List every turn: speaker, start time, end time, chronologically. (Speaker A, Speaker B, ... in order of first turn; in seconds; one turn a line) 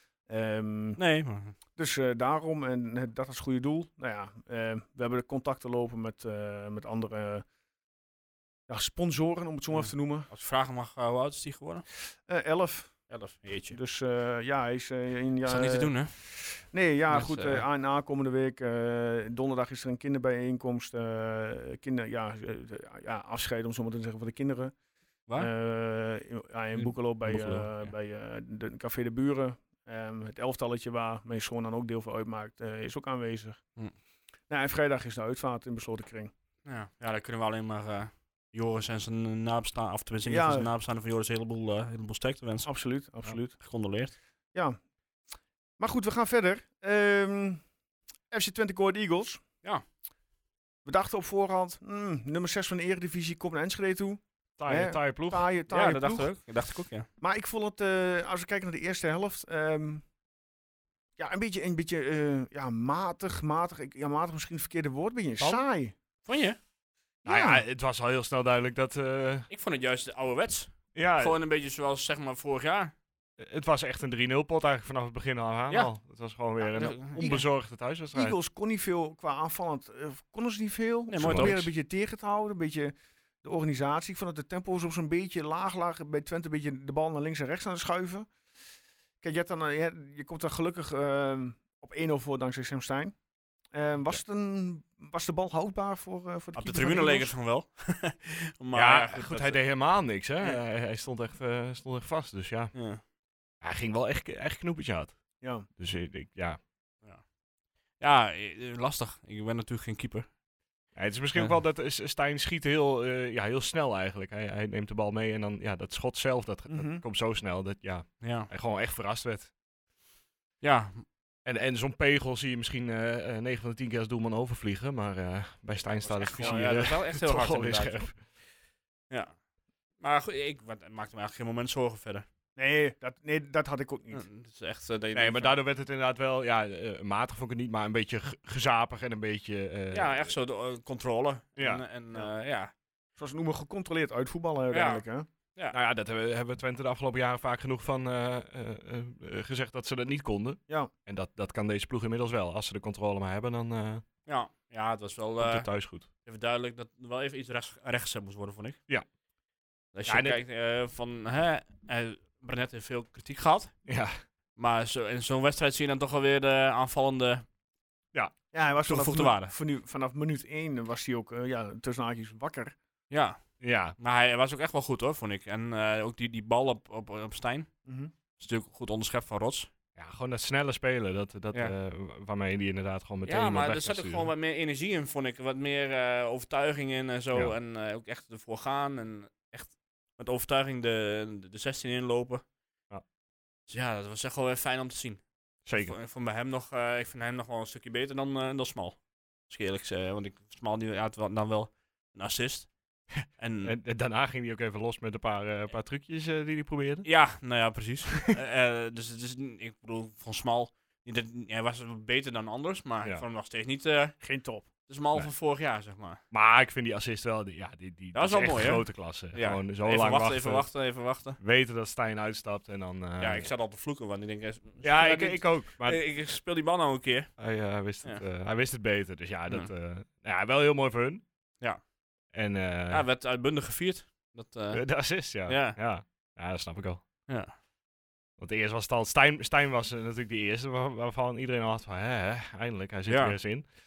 Speaker A: 0.3-1.0
Speaker B: 1.0-1.5
Speaker A: 1.8-7.4
Speaker A: 8.7-10.3
Speaker B: 9.7-11.8
Speaker A: 12.2-13.1
Speaker B: 13.1-13.8
Speaker A: 13.7-24.7
Speaker B: 15.4-16.2
Speaker B: 17.1-17.6
Speaker A: 25.4-33.6
Speaker B: 26.8-27.9
Speaker A: 34.5-36.3
Speaker B: 36.6-42.7
Speaker A: 40.2-40.7
Speaker A: 42.6-43.5
Speaker B: 43.5-44.1
Speaker A: 44.5-44.8
Speaker A: 45.8-47.6
Speaker A: 48.3-49.4
Speaker A: 50.8-56.3
Speaker C: 54.6-55.4
Speaker B: 55.7-57.1
Speaker A: 57.2-60.0
Speaker A: 61.2-65.9
Speaker B: 66.2-66.6
Speaker A: 67.2-67.6
Speaker C: 67.2-69.5
Speaker B: 69.5-72.9
Speaker C: 70.9-71.4
Speaker C: 73.4-78.3
Speaker B: 76.6-77.2
Speaker A: 77.2-77.4
Speaker A: 78.1-88.3
Speaker B: 81.1-81.6
Speaker C: 81.2-81.7
Speaker A: 89.2-93.2
Speaker A: 93.7-97.3
Speaker B: 96.5-99.7
Speaker C: 98.7-102.7
Speaker B: 102.7-103.0
Speaker C: 103.6-105.2
Speaker A: 105.4-105.7
Speaker C: 105.7-106.6
Speaker B: 108.0-110.3
Speaker C: 110.9-119.5
Speaker A: 116.7-117.0
Speaker B: 118.2-118.5
Speaker B: 120.6-121.1
Speaker C: 121.4-128.2
Speaker B: 126.0-128.3
Speaker A: 126.4-126.7
Speaker B: 129.1-129.4
Speaker B: 130.0-132.3
Speaker A: 132.6-134.2
Speaker B: 134.1-135.6
Speaker C: 135.1-140.2
Speaker B: 139.9-142.7
Speaker C: 141.6-141.8
Speaker A: 143.2-145.3
Speaker B: 144.7-145.0
Speaker C: 145.7-154.0
Speaker B: 154.2-158.8
Speaker C: 155.4-156.1
Speaker B: 159.9-163.8
Speaker C: 160.1-160.4
Speaker C: 163.8-164.2
Speaker B: 164.6-167.5
Speaker A: 168.5-172.8
Speaker B: 168.9-169.5
Speaker B: 173.1-173.4
Speaker C: 173.6-173.9
Speaker B: 174.0-177.7
Speaker A: 177.8-178.1
Speaker B: 178.4-179.7
Speaker C: 179.9-184.3
Speaker B: 183.2-192.4
Speaker B: 193.7-203.7
Speaker C: 195.6-195.9
Speaker C: 203.6-207.1
Speaker B: 207.0-216.2
Speaker A: 214.2-214.7
Speaker C: 216.3-220.7
Speaker B: 218.1-221.4
Speaker C: 221.4-223.5
Speaker B: 223.2-227.3
Speaker C: 224.8-226.0
Speaker C: 227.4-231.2
Speaker C: 232.3-233.1
Speaker B: 232.9-235.8
Speaker C: 234.7-237.0
Speaker B: 237.3-237.5
Speaker C: 238.4-243.7
Speaker B: 243.1-243.4